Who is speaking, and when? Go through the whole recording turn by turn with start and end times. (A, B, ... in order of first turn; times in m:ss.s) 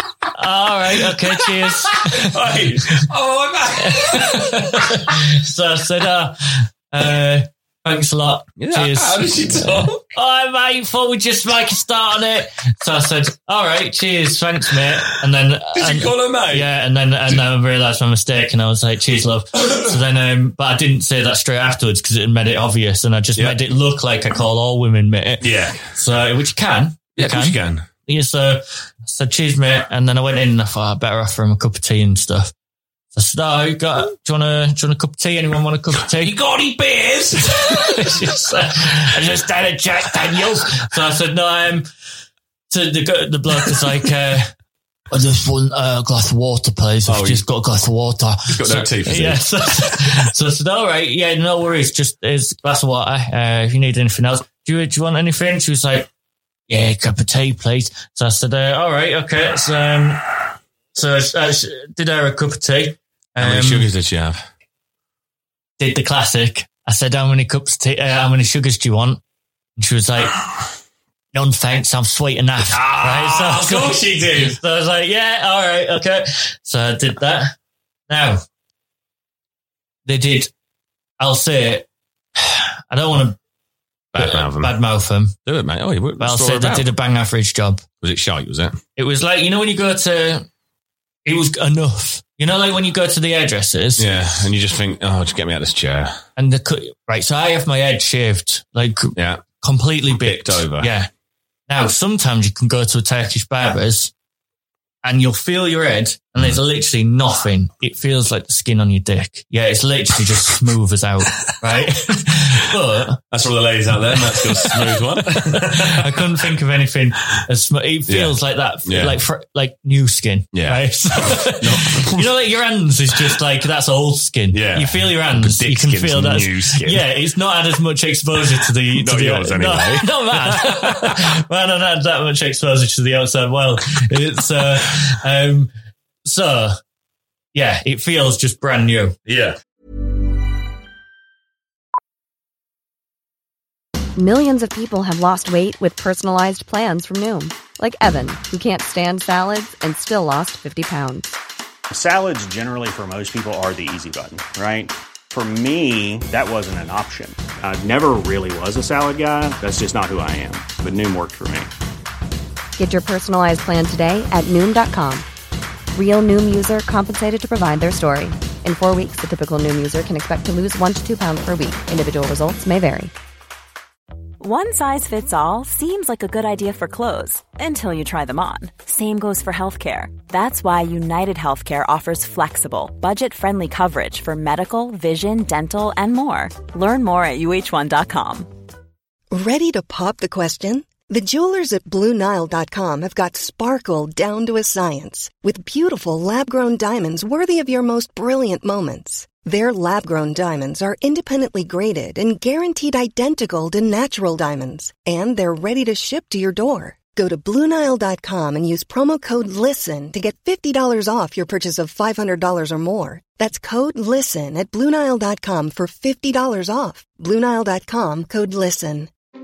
0:00.3-0:02.3 A
0:01.4-0:05.0 B
0:03.8-0:32.5 A
0:08.6-0:10.0 B
0:15.7-0:16.7 B
0:25.4-0:25.9 B
0:27.2-0:27.9 B
0:33.1-0:36.3 A
0:36.2-0:38.3 B
0:37.6-0:41.9 A
0:42.7-0:44.5 A
0:45.1-0:56.1 A
0:47.1-0:47.4 B
0:48.5-0:49.4 B
0:56.7-1:00.3 A
1:00.9-1:03.9 A
1:03.4-1:04.4 B
1:05.8-1:09.2 A
1:09.8-1:10.4 A
1:11.3-1:17.5 A
1:12.7-1:14.6 B
1:18.1-1:18.4 A
1:20.0-1:20.5 A
1:21.2-1:23.4 A
1:24.1-1:24.7 B
1:24.2-1:25.3 A
1:25.4-1:26.9 B
1:26.2-1:27.8 A
1:28.0-1:28.8 B
1:29.0-1:30.4 A
1:31.2-1:34.1 A
1:34.0-1:36.2 B
1:36.4-1:41.1 A
1:39.2-1:39.4 B
1:40.1-1:40.9 B
1:41.7-1:44.1 A
1:45.0-1:53.2 A
1:53.3-1:56.4 B
1:54.2-1:55.0 A
1:55.5-2:15.7 A
1:58.1-1:59.2 B
2:00.5-2:02.3 B
2:04.5-2:07.0 B
2:08.9-2:11.2 B
2:16.2-2:16.8 A
2:17.5-2:19.2 A
2:19.2-2:19.6 B
2:24.2-2:31.3 C
2:31.9-2:41.7 D
2:42.8-2:45.2 C
2:45.9-2:53.1 C
2:54.4-3:08.5 E
3:09.3-3:39.1 F